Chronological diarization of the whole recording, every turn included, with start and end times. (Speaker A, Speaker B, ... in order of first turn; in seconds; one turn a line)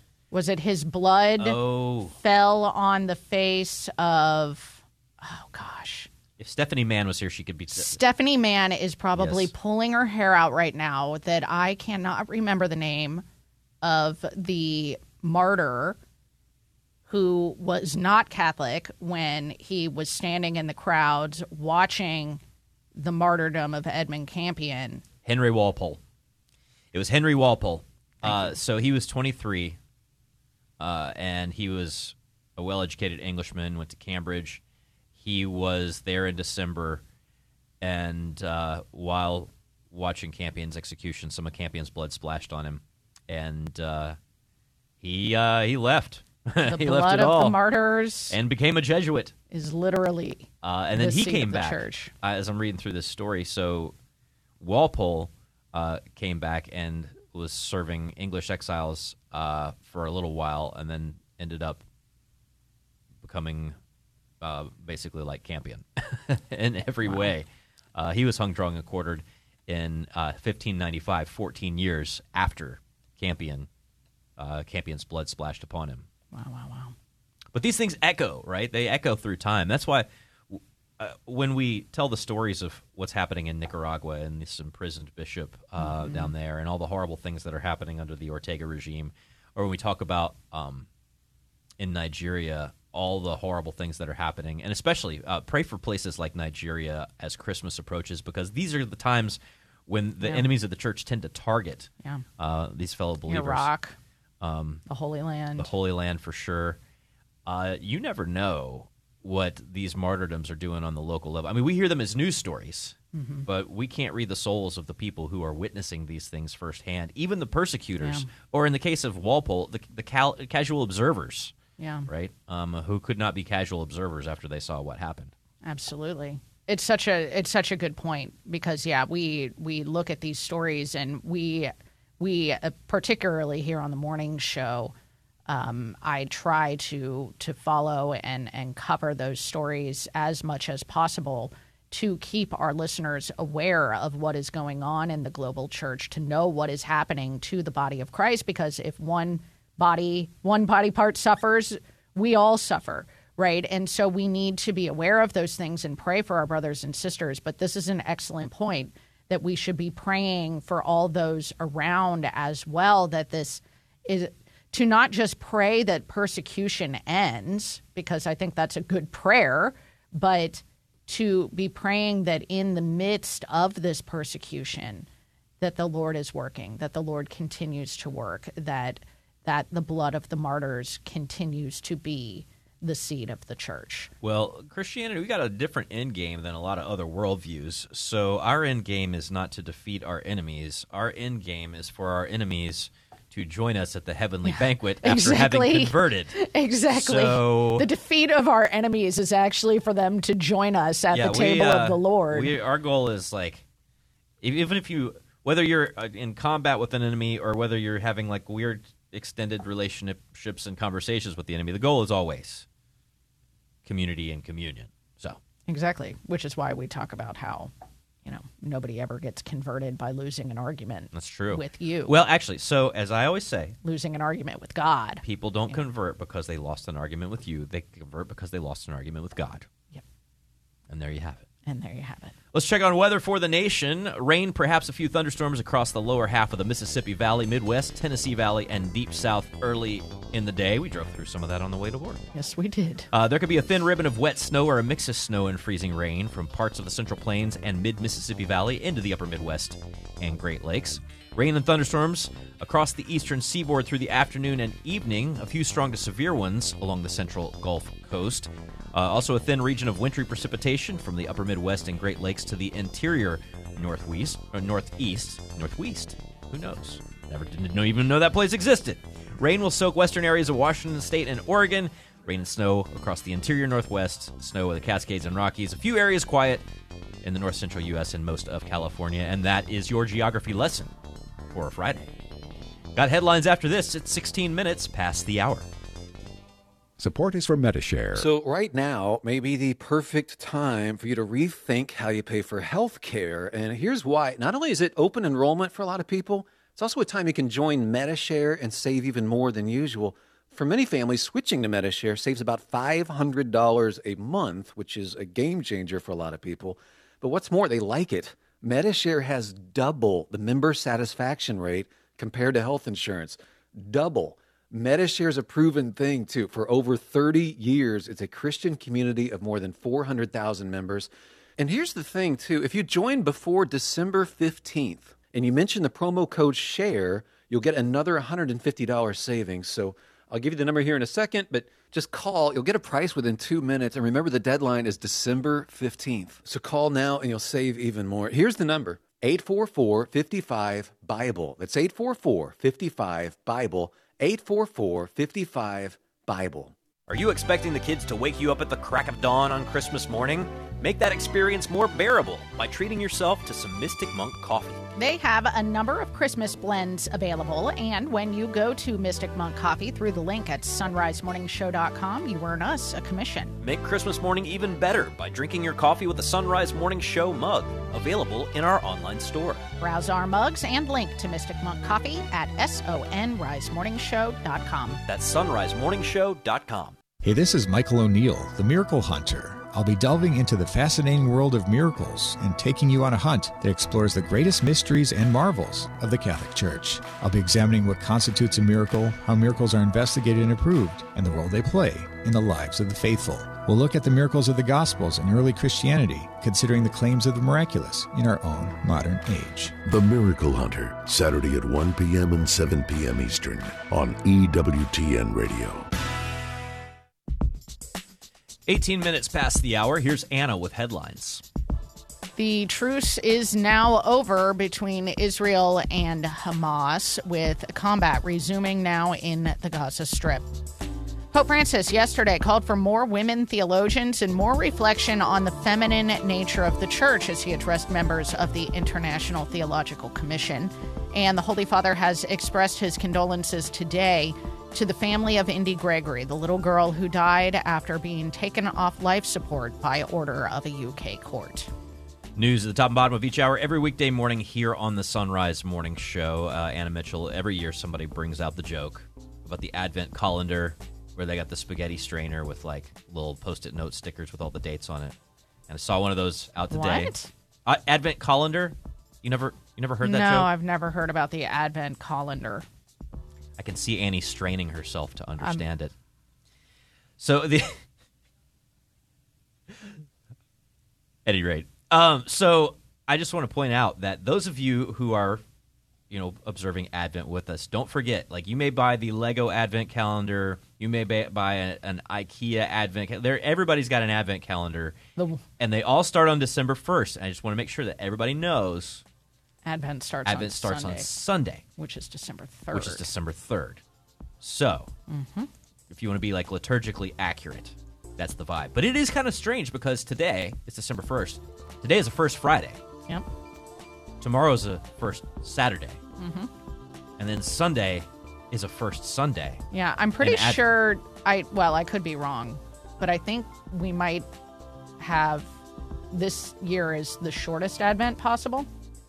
Speaker A: 0.3-1.6
Speaker B: 1.4-2.1
Speaker A: 2.2-6.1
Speaker B: 6.4-8.0
Speaker A: 7.8-13.2
Speaker B: 9.2-9.5
Speaker A: 13.8-16.0
Speaker A: 17.1-22.4
Speaker A: 22.9-25.0
Speaker B: 25.2-26.0
Speaker B: 26.9-29.8
Speaker A: 28.2-28.6
Speaker B: 30.8-34.6
Speaker B: 35.2-37.0
Speaker B: 37.8-44.2
Speaker B: 45.0-47.6
Speaker A: 46.6-48.4
Speaker B: 48.3-49.3
Speaker A: 49.5-52.1
Speaker B: 50.6-53.9
Speaker B: 54.6-61.8
Speaker B: 63.2-63.8
Speaker B: 64.4-73.7
Speaker A: 67.0-67.3
Speaker B: 74.4-76.0
Speaker A: 76.3-76.9
Speaker B: 77.5-90.9
Speaker A: 85.8-86.3
Speaker B: 91.8-103.7
Speaker A: 103.3-104.0
Speaker B: 104.4-104.8
Speaker A: 104.9-105.7
Speaker B: 105.6-106.8
Speaker B: 107.5-121.5
Speaker A: 113.1-113.5
Speaker A: 118.0-118.3
Speaker A: 121.8-122.1
Speaker B: 122.1-125.3
Speaker A: 125.6-134.9
Speaker A: 135.5-175.1
Speaker A: 175.6-184.1
Speaker B: 184.2-196.3
Speaker A: 194.4-202.5
Speaker B: 196.9-197.8
Speaker B: 201.1-203.6
Speaker B: 204.4-212.6
Speaker B: 213.8-215.4
Speaker A: 215.7-217.7
Speaker A: 218.2-222.1
Speaker B: 221.1-223.8
Speaker A: 223.8-225.8
Speaker B: 225.2-229.7
Speaker B: 230.9-231.4
Speaker A: 231.7-232.3
Speaker B: 232.5-242.2
Speaker A: 242.3-243.1
Speaker B: 243.1-276.6
Speaker B: 277.2-280.9
Speaker B: 281.5-282.1
Speaker B: 282.9-285.7
Speaker C: 287.0-288.3
Speaker D: 288.1-346.7
Speaker B: 347.1-354.8
Speaker A: 355.0-363.5
Speaker B: 363.6-369.6
Speaker A: 369.8-375.0
Speaker B: 375.1-377.0
Speaker C: 377.2-399.7
Speaker E: 399.8-405.9
Speaker B: 408.7-411.4
Speaker A: 412.4-420.5
Speaker A: 421.3-441.7
Speaker B: 442.4-455.1
Speaker B: 455.7-457.1
Speaker A: 456.7-457.3
Speaker B: 457.6-460.5
Speaker A: 460.0-462.6
Speaker B: 463.6-465.9
Speaker B: 467.2-467.8
Speaker B: 471.2-475.4
Speaker B: 476.1-484.9
Speaker A: 485.2-485.4
Speaker B: 485.6-489.0
Speaker A: 489.6-491.1
Speaker B: 490.2-491.6
Speaker A: 491.8-493.0
Speaker B: 492.7-493.8
Speaker B: 494.4-494.9
Speaker A: 495.1-495.5
Speaker B: 495.9-502.8
Speaker B: 504.2-506.0
Speaker A: 506.2-506.5
Speaker B: 507.2-509.6
Speaker A: 509.7-514.3
Speaker B: 510.2-510.6
Speaker A: 515.0-515.5
Speaker A: 516.1-518.7